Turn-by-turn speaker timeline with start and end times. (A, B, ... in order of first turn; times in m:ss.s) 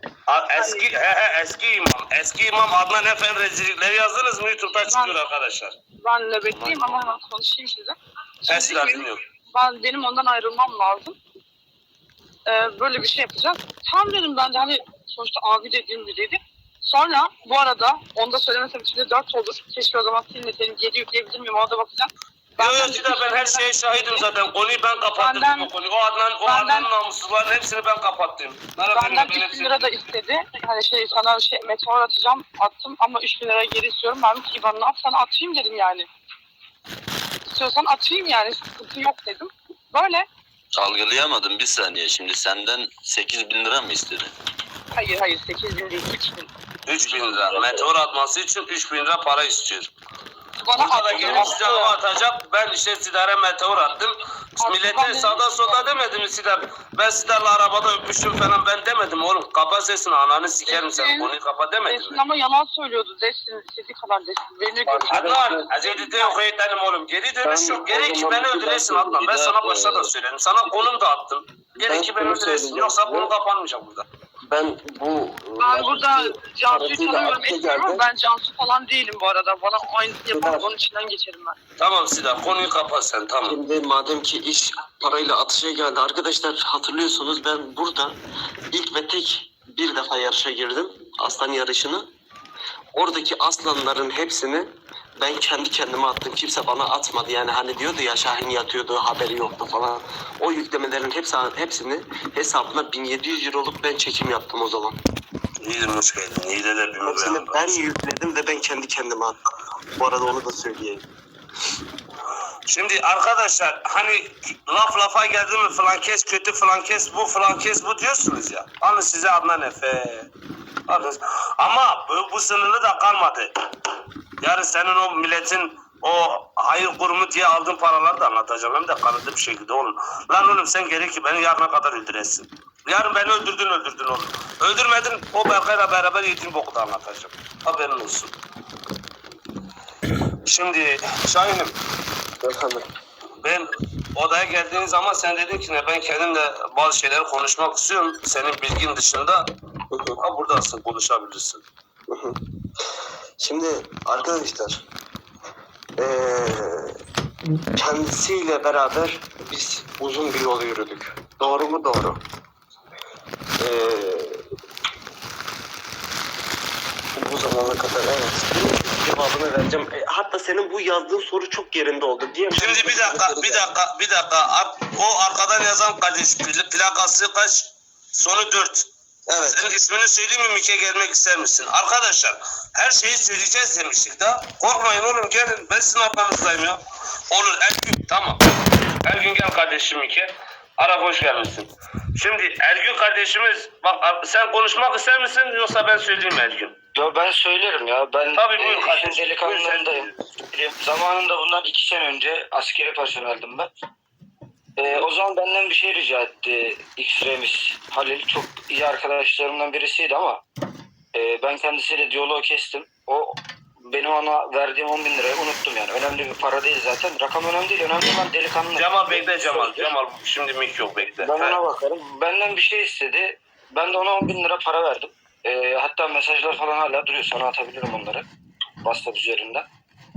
0:00.3-0:05.8 A
0:00.5-0:00.9 B
0:04.7-0:05.2 B
0:06.0-0:11.2 B
0:06.4-0:06.9 A
0:08.5-0:09.2 A
0:12.5-0:24.2 B
0:22.6-0:29.9 A
0:25.2-0:25.7 B
0:26.4-0:26.9 B
0:28.9-0:36.1 B
0:37.5-0:40.3 B
0:40.8-0:44.3 C
0:44.9-0:46.5 B
0:46.9-0:49.9 A
0:47.0-0:47.9 C
0:50.6-0:52.0 B
0:50.8-1:02.2 A
0:54.6-0:55.9 B
1:00.6-1:01.3 B
1:01.8-1:06.4 B
1:04.8-1:05.7 D
1:05.1-1:14.0 A
1:07.4-1:09.2 D
1:09.2-1:10.1 C
1:11.8-1:13.3 D
1:14.5-1:18.0 D
1:15.6-1:21.6 B
1:20.3-1:20.7 D
1:21.8-1:23.6 A
1:23.4-1:28.1 D
1:28.7-1:32.1 D
1:32.9-1:45.0 D
1:45.6-1:47.7 A
1:47.0-1:49.4 D
1:50.0-1:51.0 D
1:52.7-2:00.3 A
2:00.9-2:03.5 A
2:04.4-2:18.3 A
2:20.4-2:21.7 A
2:22.4-2:22.9 D
2:23.4-2:29.5 A
2:29.9-2:30.2 D
2:30.2-2:31.6 A
2:32.1-2:32.4 D
2:33.4-2:34.8 D
2:36.0-2:37.0 D
2:37.8-2:42.2 D
2:43.6-2:44.4 D
2:47.1-2:53.7 D
2:52.6-2:58.9 A
2:59.3-2:59.6 D
2:59.4-3:08.4 A
3:09.0-3:16.7 A
3:16.9-3:23.7 E
3:18.3-3:20.2 A
3:24.8-3:30.4 E
3:31.1-3:39.9 E
3:38.8-3:41.6 A
3:41.2-3:48.2 E
3:48.8-3:49.6 E